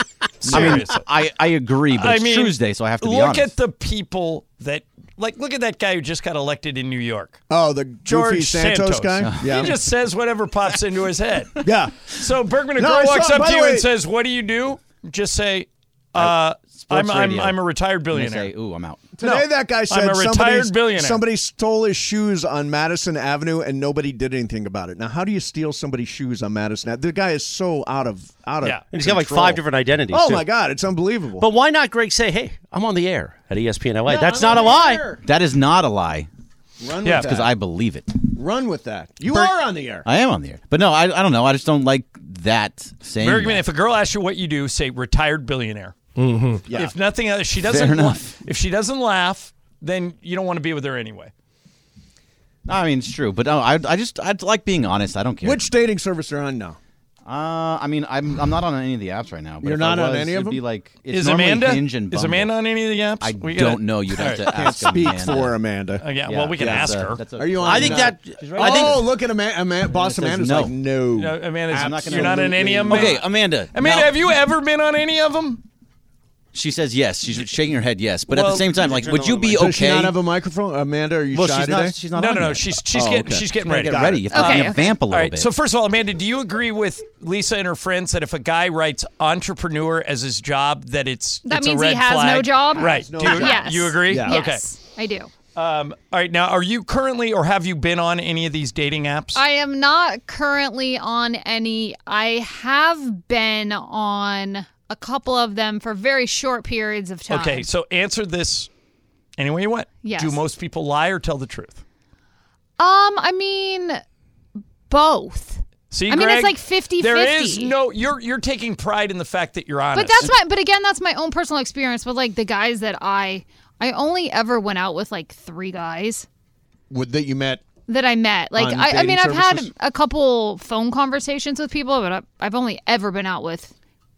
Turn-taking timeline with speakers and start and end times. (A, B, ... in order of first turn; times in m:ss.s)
0:00.4-0:01.0 A
0:00.4-0:00.9 B
0:00.4-0:03.5 C
0:01.9-0:07.4 A
0:07.5-0:09.7 B
0:08.0-0:18.5 A
0:09.2-0:09.7 C
0:11.6-0:12.1 B
0:12.8-0:13.9 B
0:16.2-0:17.6 C
0:18.1-0:19.1 C
0:19.2-0:31.5 B
0:19.2-0:21.2 A
0:28.9-0:30.4 D
0:31.4-0:35.2 D
0:34.0-0:35.2 B
0:35.2-0:36.3 C
0:36.8-0:37.5 B
0:37.0-0:37.3 A
0:37.1-0:38.2 C
0:38.2-0:40.0 B
0:40.0-0:43.6 C
0:43.2-0:46.0 A
0:46.7-0:46.9 B
0:46.7-0:51.3 A
0:47.6-0:48.4 C
0:52.6-0:55.6 C
0:55.4-0:56.8 B
0:57.2-1:02.5 C
0:59.6-1:00.6 B
1:01.1-1:04.5 A
1:03.2-1:05.6 C
1:04.2-1:13.2 B
1:06.0-1:07.2 A
1:06.2-1:09.1 C
1:07.6-1:08.8 D
1:08.6-1:08.9 A
1:09.9-1:10.8 C
1:11.2-1:15.6 A
1:11.7-1:14.1 C
1:16.5-1:20.2 C
1:18.3-1:18.7 A
1:18.9-1:22.0 B
1:21.3-1:22.7 C
1:22.1-1:34.6 A
1:22.9-1:24.4 B
1:23.6-1:25.5 C
1:24.3-1:24.8 E
1:31.4-1:35.3 E
1:32.7-1:34.3 B
1:35.5-1:39.4 A
1:39.3-1:47.7 E
1:47.3-1:48.7 A
1:49.4-1:51.8 A
1:50.0-1:50.4 E
1:52.8-1:54.0 E
1:54.9-1:57.7 E
1:55.9-2:00.3 A
1:59.9-2:06.2 E
2:06.9-2:07.6 B
2:07.9-2:13.7 E
2:08.5-2:09.7 B